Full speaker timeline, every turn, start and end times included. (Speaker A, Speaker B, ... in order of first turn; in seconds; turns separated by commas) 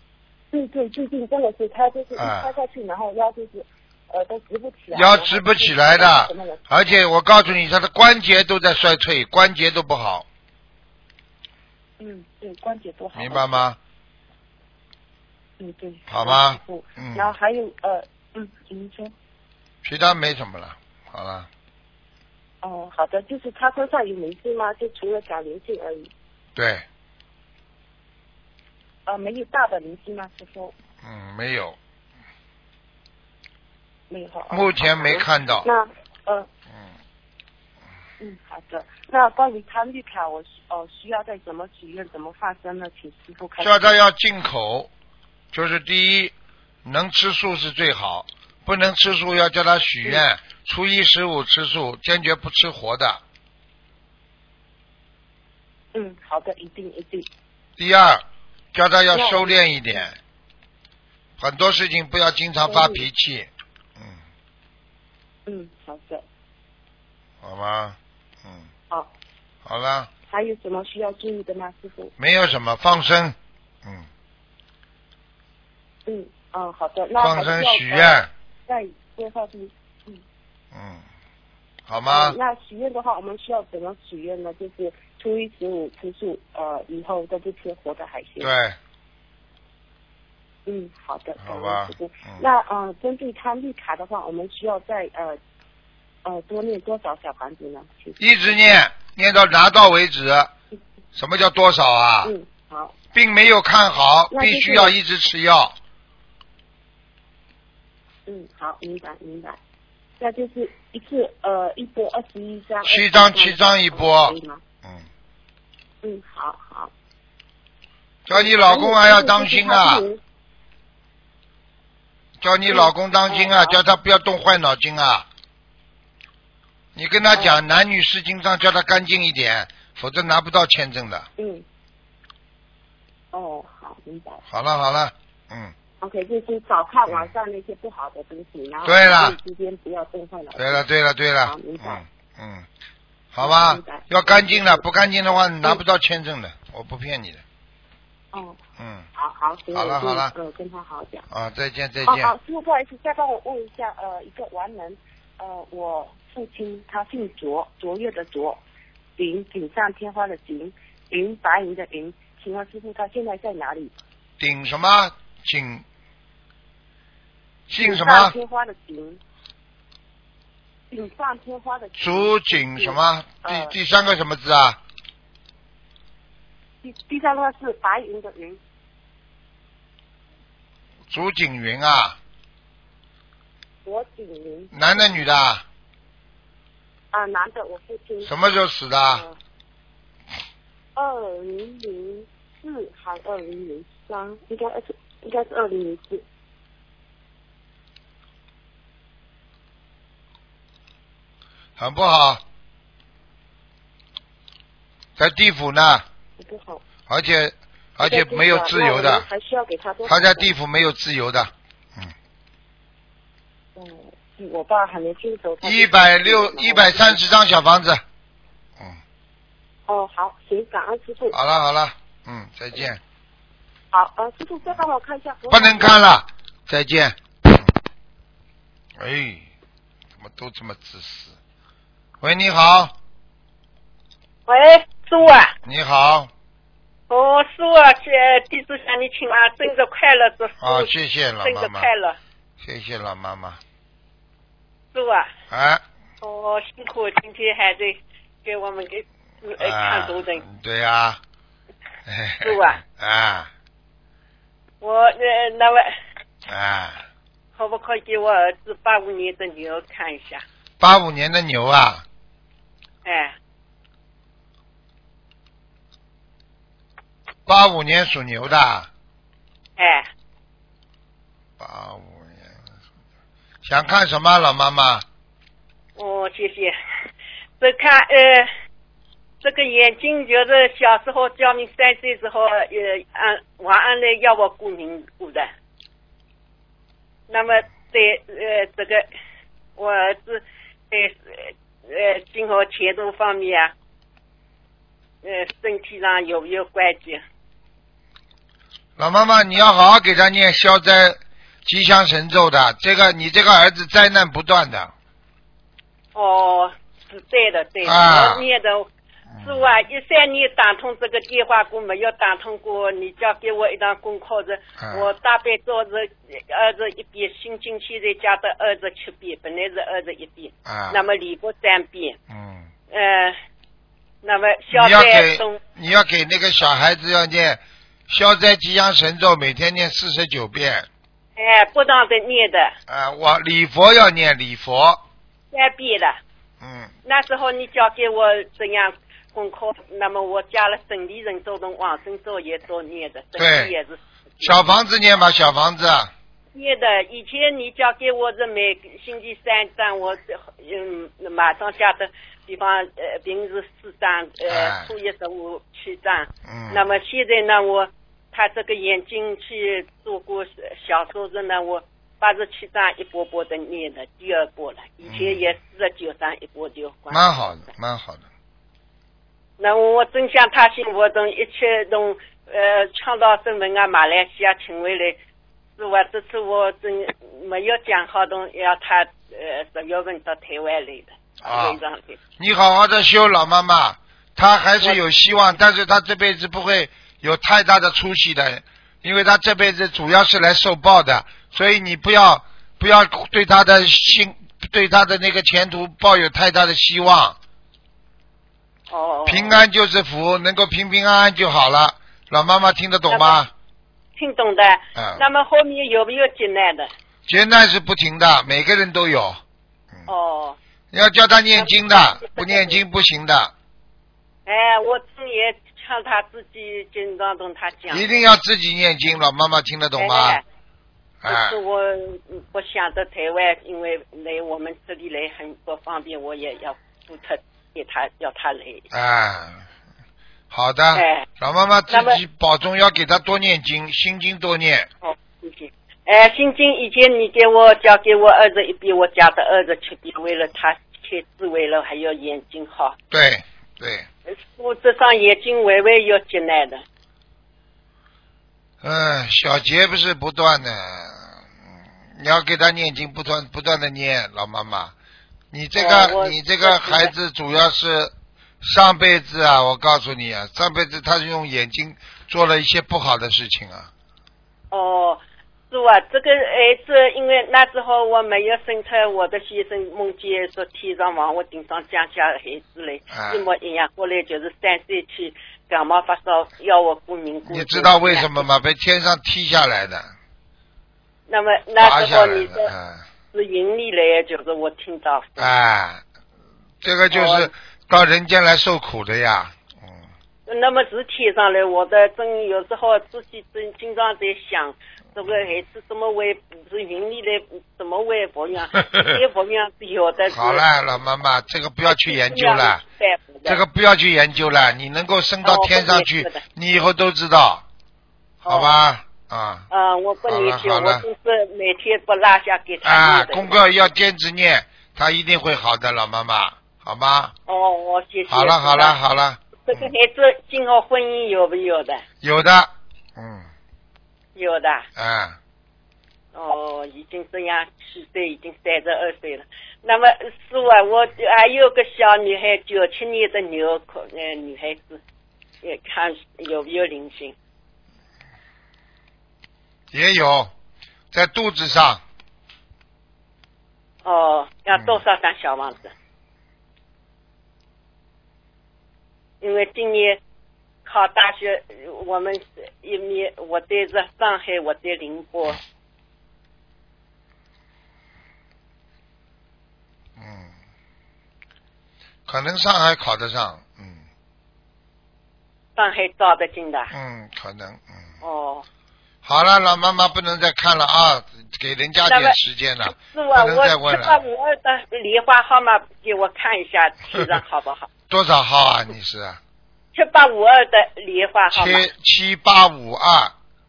Speaker A: 0.5-6.9, Speaker B: 2.2-2.5, Speaker B: 4.9-10.2, Speaker A: 12.0-13.7, Speaker B: 13.1-13.8, Speaker A: 15.6-19.1, Speaker B: 16.1-17.3, Speaker B: 19.8-21.5, Speaker A: 22.6-26.1, Speaker B: 26.6-26.8, Speaker A: 29.1-30.7, Speaker B: 31.0-31.8, Speaker A: 34.1-36.5, Speaker B: 34.5-35.7, Speaker A: 38.2-44.0, Speaker B: 43.6-44.9, Speaker B: 45.5-46.3, Speaker B: 46.8-53.2, Speaker A: 55.9-57.3, Speaker B: 57.8-58.2, Speaker B: 58.7-60.1, Speaker A: 59.1-60.0, Speaker B: 61.4-64.2, Speaker A: 62.6-63.1, Speaker A: 65.5-66.2, Speaker B: 67.4-68.7, Speaker B: 69.6-70.1, Speaker A: 70.3-72.1, Speaker B: 72.2-74.1, Speaker A: 76.1-80.2, Speaker B: 77.2-78.3, Speaker B: 80.7-81.0, Speaker B: 81.9-82.4, Speaker A: 82.0-88.5, Speaker B: 88.4-88.8, Speaker A: 90.7-95.4, Speaker B: 91.4-92.4, Speaker A: 96.2-98.7, Speaker B: 98.2-100.5, Speaker B: 101.1-102.3, Speaker A: 102.2-102.9, Speaker B: 103.1-105.8, Speaker A: 104.3-105.0, Speaker A: 108.3-109.6, Speaker A: 110.2-114.6, Speaker B: 112.9-115.1, Speaker A: 116.0-116.9, Speaker B: 118.3-120.0, Speaker A: 118.3-120.2, Speaker B: 122.4-125.2, Speaker A: 122.7-123.8, Speaker B: 126.9-131.3, Speaker A: 127.3-127.6, Speaker A: 131.4-131.6, Speaker A: 133.3-134.4, Speaker B: 134.5-135.7, Speaker A: 136.0-140.9, Speaker B: 138.8-139.4, Speaker B: 140.6-142.7, Speaker A: 141.4-142.0, Speaker B: 143.3-147.4, Speaker A: 143.4-144.9, Speaker A: 148.3-148.6, Speaker B: 148.8-149.1, Speaker A: 149.2-151.2, Speaker B: 149.7-150.3, Speaker B: 151.3-152.3, Speaker A: 152.0-158.6, Speaker A: 159.2-163.9, Speaker B: 164.4-165.8, Speaker B: 167.7-168.4, Speaker A: 167.7-169.2, Speaker A: 170.9-173.8, Speaker B: 172.0-174.8, Speaker A: 176.8-178.6, Speaker B: 181.1-182.2, Speaker A: 183.8-185.2, Speaker B: 184.7-185.6, Speaker A: 187.1-188.5, Speaker B: 188.2-189.2, Speaker A: 189.1-189.3, Speaker A: 190.9-196.2, Speaker B: 201.8-202.4, Speaker B: 205.2-206.0, Speaker A: 206.4-206.8, Speaker B: 207.1-209.2, Speaker A: 208.0-210.5, Speaker B: 210.1-212.1, Speaker A: 213.8-217.2, Speaker B: 215.6-218.0, Speaker A: 219.9-221.4, Speaker B: 221.3-223.0, Speaker A: 223.9-226.0, Speaker B: 225.5-227.7, Speaker B: 229.0-229.5, Speaker B: 230.2-231.4, Speaker B: 232.2-232.9, Speaker C: 234.5-235.5, Speaker B: 235.6-236.3, Speaker C: 237.1-242.2, Speaker B: 240.6-241.9, Speaker B: 242.6-243.6, Speaker C: 244.9-245.3, Speaker B: 245.5-245.8, Speaker C: 246.2-250.4, Speaker B: 249.6-251.2, Speaker B: 252.1-253.5, Speaker C: 252.4-252.8, Speaker C: 254.8-255.9, Speaker B: 256.5-257.0, Speaker C: 257.6-260.4, Speaker B: 260.8-262.0, Speaker C: 263.0-263.3, Speaker B: 267.5-268.9, Speaker C: 269.8-270.1, Speaker B: 271.6-272.5, Speaker B: 273.6-275.0, Speaker C: 275.9-276.8, Speaker C: 277.6-278.5, Speaker C: 279.4-285.5, Speaker C: 287.3-289.1, Speaker C: 289.8-293.7, Speaker C: 295.2-297.2, Speaker B: 299.0-304.9, Speaker C: 306.1-308.9, Speaker B: 307.8-308.4, Speaker B: 309.3-309.6, Speaker C: 309.4-322.2, Speaker B: 314.8-315.1, Speaker B: 320.6-321.0, Speaker B: 322.3-322.7, Speaker C: 322.9-323.4, Speaker C: 324.2-325.6, Speaker B: 324.7-330.9, Speaker C: 331.4-332.8, Speaker B: 332.9-335.0, Speaker C: 335.5-336.2, Speaker B: 336.6-336.9, Speaker C: 337.0-344.7, Speaker B: 343.4-343.7, Speaker B: 344.4-346.1, Speaker C: 346.5-367.3, Speaker B: 354.5-354.9, Speaker B: 356.4-356.9, Speaker B: 365.0-365.5, Speaker B: 367.1-368.2, Speaker C: 369.6-375.2, Speaker C: 375.8-382.2, Speaker B: 381.4-381.8, Speaker B: 382.4-397.4, Speaker C: 398.9-399.6, Speaker B: 399.2-403.5, Speaker C: 403.1-403.4, Speaker C: 404.1-406.9, Speaker B: 404.9-405.2, Speaker B: 407.3-409.4, Speaker C: 410.1-410.6, Speaker B: 410.9-413.5, Speaker C: 411.5-412.8, Speaker C: 414.4-418.2, Speaker B: 417.9-420.4, Speaker C: 420.0-420.4, Speaker B: 421.2-421.6, Speaker C: 421.3-428.9, Speaker B: 428.9-429.6, Speaker B: 430.5-434.9, Speaker C: 430.9-431.3, Speaker C: 431.9-432.2, Speaker C: 435.0-443.0, Speaker B: 443.1-444.1, Speaker C: 444.3-446.8, Speaker B: 448.8-451.4, Speaker B: 452.1-454.9, Speaker B: 455.5-463.9, Speaker C: 455.8-457.1, Speaker C: 464.7-478.5, Speaker B: 473.1-473.4, Speaker B: 477.5-480.1, Speaker C: 481.3-482.7, Speaker B: 481.8-483.0, Speaker C: 483.3-485.5, Speaker B: 485.4-486.0, Speaker B: 486.8-490.0, Speaker C: 487.1-487.5, Speaker C: 490.5-500.6, Speaker B: 498.8-499.1, Speaker B: 500.3-502.8, Speaker C: 501.9-503.6, Speaker B: 503.4-507.6, Speaker C: 505.4-506.4, Speaker C: 508.4-508.7, Speaker B: 508.5-509.6, Speaker C: 509.7-513.9, Speaker B: 510.3-511.0, Speaker B: 512.8-517.3, Speaker C: 517.5-519.0, Speaker B: 518.3-519.9, Speaker C: 519.6-522.0, Speaker B: 522.2-523.5, Speaker C: 524.3-524.9, Speaker B: 525.0-525.4, Speaker C: 526.3-535.0, Speaker C: 535.6-537.3, Speaker B: 539.9-540.5, Speaker B: 541.1-542.0, Speaker C: 544.0-545.9, Speaker B: 544.7-545.0, Speaker C: 549.4-550.2, Speaker C: 550.8-555.6, Speaker B: 560.2-560.5, Speaker B: 562.3-564.0, Speaker C: 565.8-566.9, Speaker B: 566.9-568.1, Speaker C: 568.2-568.6, Speaker B: 569.2-574.2, Speaker C: 572.0-572.4, Speaker C: 573.0-577.9, Speaker B: 578.1-579.4, Speaker C: 579.9-581.9, Speaker B: 581.5-583.3